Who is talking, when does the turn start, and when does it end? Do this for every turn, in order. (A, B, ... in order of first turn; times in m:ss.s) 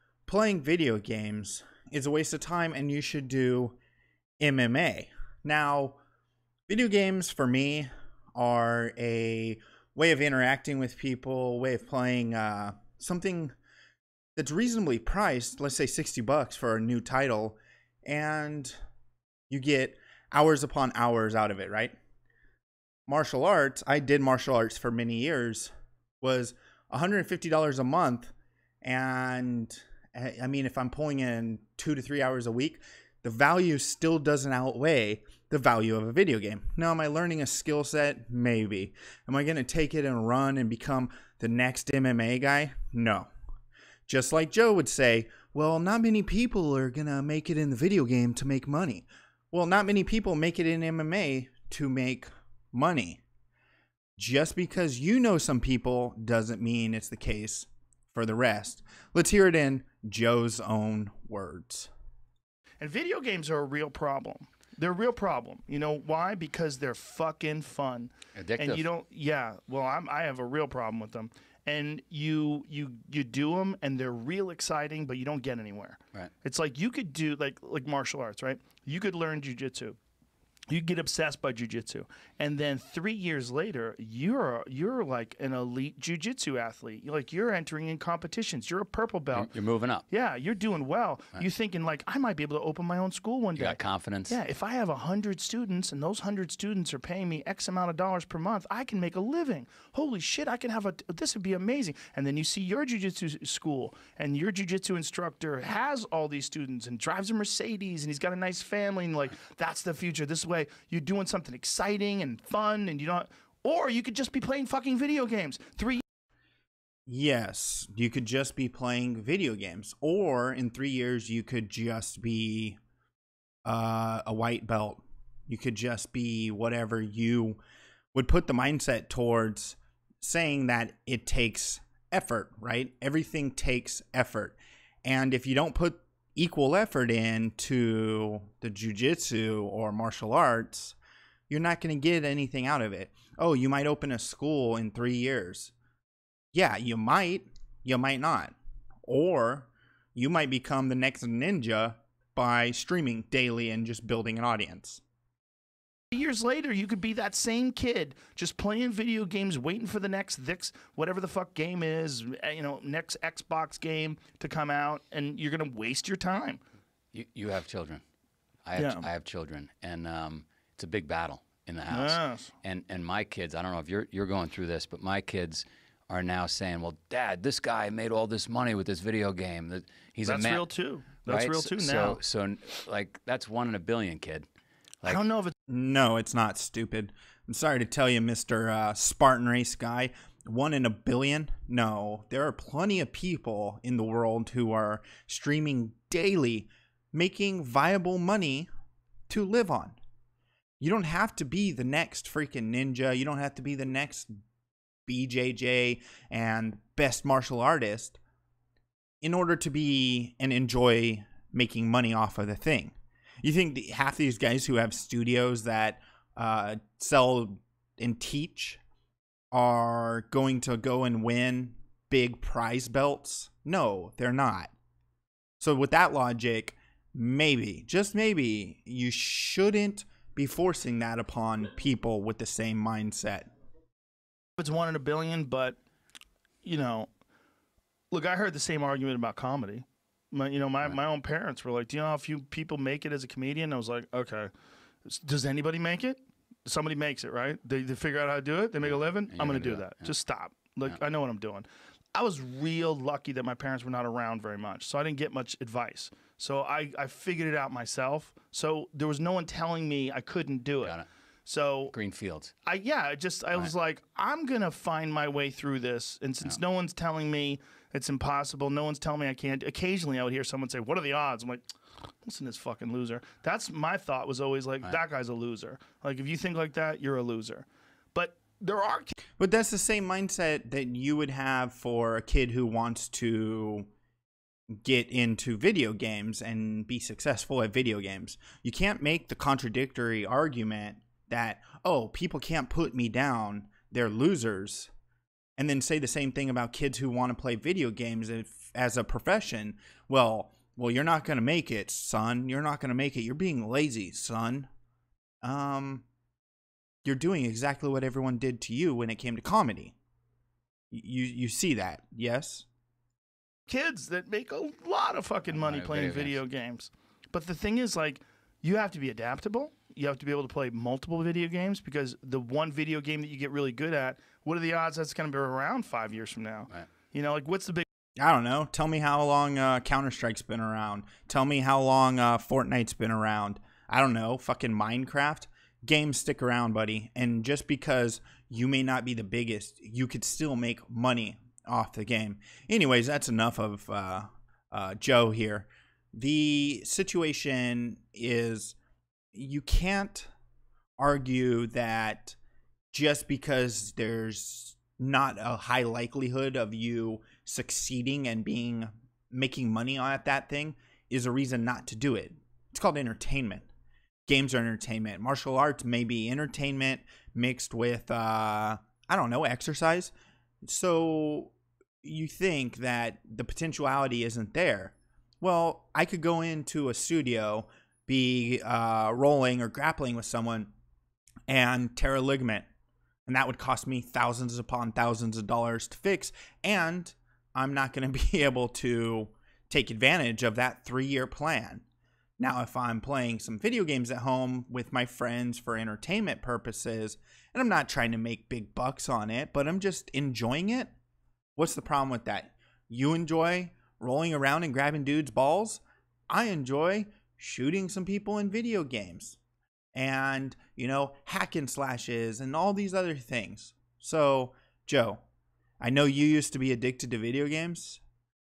0:00.3-0:03.8 A
0:04.4-0:06.0 A
0:06.7-0:13.6 A
0:14.4-0:18.8 A
0:19.5-0:22.0 A
0:23.1-0:43.3 A
0:44.1-0:53.2 A
0:54.2-1:01.9 A
1:02.8-1:20.0 B
1:08.4-1:08.8 C
1:20.7-1:29.5 B
1:29.3-1:30.0 C
1:30.1-1:56.0 B
1:33.6-1:34.4 C
1:57.1-2:02.8 A
2:03.6-2:07.6 A
2:08.1-2:21.0 A
2:21.5-2:25.7 A
2:26.5-2:35.0 A
2:36.1-2:46.6 B
2:47.1-2:48.0 C
2:48.6-3:00.7 C
2:48.8-2:49.1 B
2:51.9-2:52.5 B
3:00.2-3:02.2 B
3:01.2-3:04.5 C
3:05.1-3:05.5 B
3:05.7-3:18.7 A
3:19.3-3:20.0 A
3:20.8-3:24.3 A
3:25.1-3:28.2 A
3:29.2-3:38.8 A
3:39.5-3:44.7 A
3:45.6-3:53.5 A
3:54.6-3:55.8 B
3:56.6-3:57.1 B
3:58.1-4:04.5 B
4:05.1-4:21.9 B
4:08.8-4:10.1 C
4:20.8-4:21.1 C
4:21.9-4:22.5 C
4:22.6-4:31.6 B
4:32.2-4:39.1 B
4:39.4-4:43.9 A
4:44.8-4:54.9 A
4:55.6-5:04.7 A
5:05.4-5:06.0 A
5:07.0-5:10.0 A
5:10.9-5:12.7 A
5:13.7-5:27.8 B
5:15.5-5:16.4 C
5:28.2-5:48.8 A
5:49.3-5:50.3 A
5:51.0-5:52.4 A
5:52.9-6:03.7 A
6:04.3-6:10.1 A
6:10.6-6:20.7 A
6:21.5-6:22.7 A
6:23.3-6:31.8 A
6:32.4-6:40.9 A
6:41.6-6:49.4 A
6:50.0-6:55.2 A
6:55.8-6:58.0 A